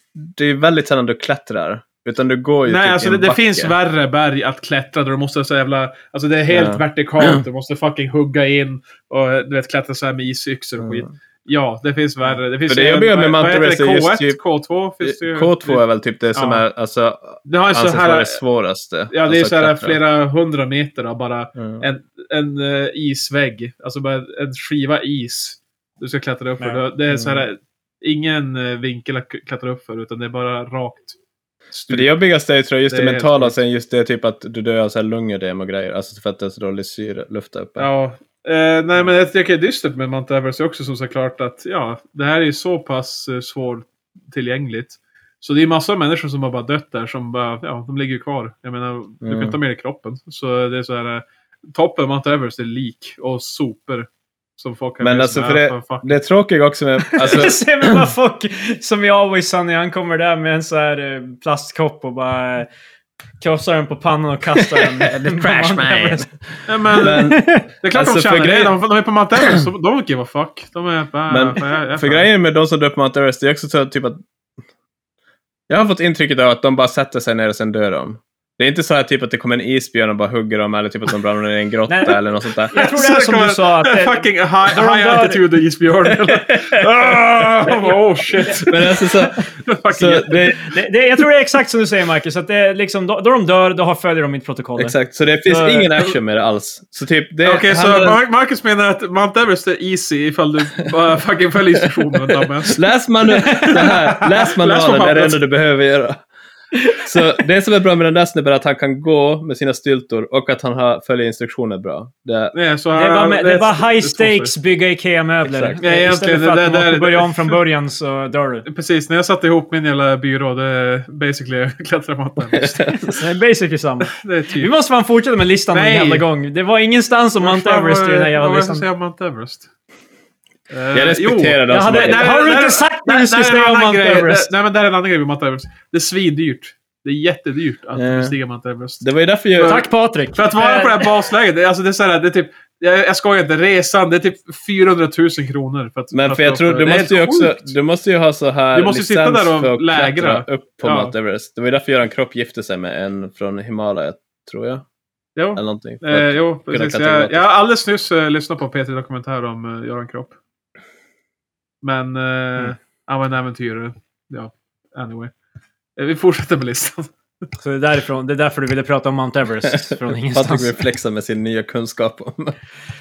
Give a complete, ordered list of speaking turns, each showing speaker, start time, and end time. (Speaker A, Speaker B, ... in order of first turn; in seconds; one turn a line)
Speaker A: 0.2-3.7
Speaker B: 2.7-15.8
Speaker A: 6.5-7.4
Speaker A: 10.8-11.1
Speaker A: 12.7-14.4
Speaker A: 15.0-20.0
Speaker B: 16.4-16.6
Speaker B: 17.5-18.4
Speaker B: 19.1-31.2
Speaker A: 21.6-21.8
Speaker A: 27.1-27.4
Speaker B: 31.7-32.1
Speaker A: 31.9-37.9
Speaker B: 32.9-33.6
Speaker B: 37.8-56.1
Speaker A: 49.2-49.6
Speaker A: 55.0-58.1
Speaker C: 57.1-62.7
Speaker C: 63.4-66.3
Speaker A: 64.6-68.8
Speaker B: 66.7-72.3
Speaker C: 67.0-67.7
Speaker A: 71.3-74.2
Speaker A: 75.7-82.8
Speaker C: 81.9-85.4
Speaker B: 82.7-90.5
Speaker A: 86.3-87.5
Speaker C: 87.7-88.5
Speaker A: 88.6-90.7
Speaker C: 90.6-95.0
Speaker A: 94.8-98.2
Speaker C: 95.5-96.1
Speaker B: 97.4-102.8
Speaker A: 102.7-106.2
Speaker C: 103.4-103.9
Speaker B: 103.5-105.4
Speaker A: 106.9-112.5
Speaker B: 112.5-114.5
Speaker C: 112.9-118.7
Speaker A: 115.4-115.8
Speaker B: 115.8-117.6
Speaker B: 118.7-123.0
Speaker A: 122.5-123.2
Speaker C: 123.0-128.8
Speaker B: 124.1-124.7
Speaker B: 125.7-126.3
Speaker B: 127.4-129.7
Speaker B: 130.7-139.0
Speaker A: 130.9-132.2
Speaker C: 131.7-134.5
Speaker A: 138.0-138.3
Speaker A: 139.0-139.8
Speaker B: 139.6-147.7
Speaker C: 139.6-141.3
Speaker A: 146.1-154.8
Speaker B: 148.7-151.1
Speaker B: 155.4-160.4
Speaker A: 155.6-157.4
Speaker B: 161.8-165.3
Speaker B: 166.0-167.1
Speaker C: 167.6-170.8
Speaker A: 170.3-172.6